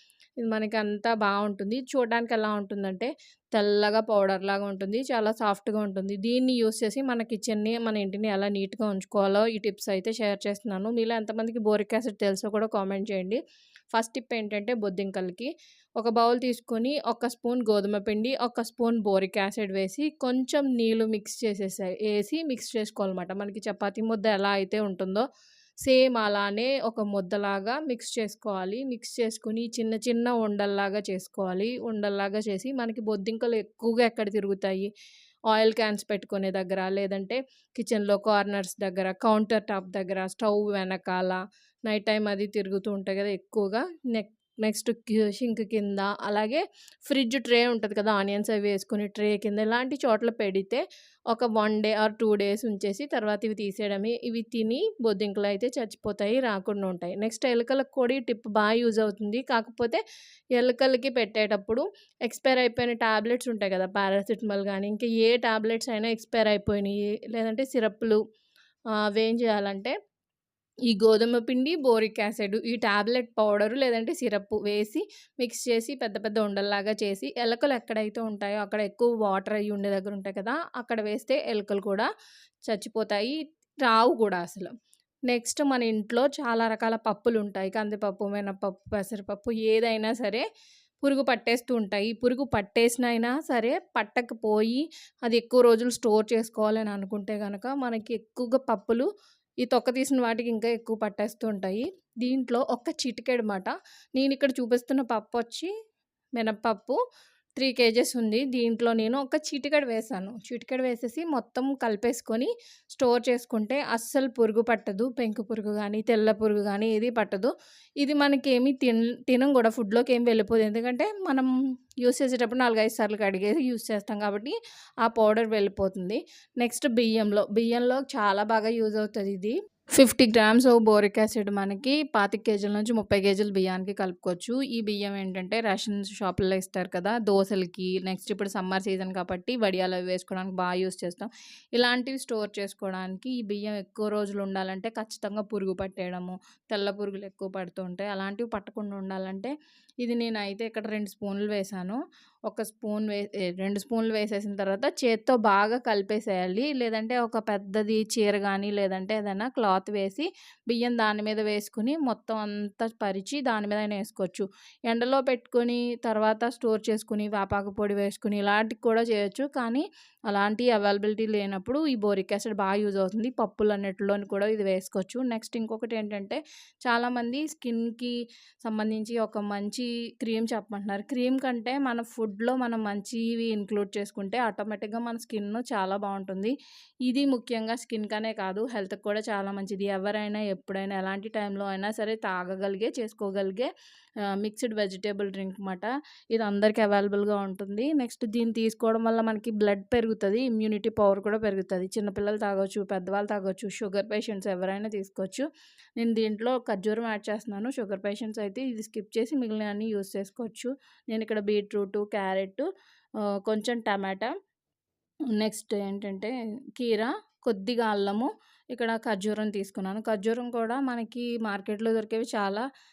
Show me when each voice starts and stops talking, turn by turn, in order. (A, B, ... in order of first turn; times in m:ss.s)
0:00.4-0:13.4 A
0:13.9-0:25.2 A
0:25.8-0:34.9 A
0:35.5-1:00.0 A
1:00.6-1:08.2 A
1:09.1-1:09.9 A
1:10.9-1:22.1 A
1:22.7-1:24.7 A
1:25.3-1:30.4 A
1:31.0-1:39.0 A
1:39.6-1:45.7 A
1:46.4-1:47.0 A
1:47.6-2:01.5 A
2:02.0-3:06.5 A
3:07.0-3:13.7 A
3:14.4-3:25.4 A
3:26.0-3:32.6 A
3:33.4-3:34.3 A
3:35.4-3:42.6 A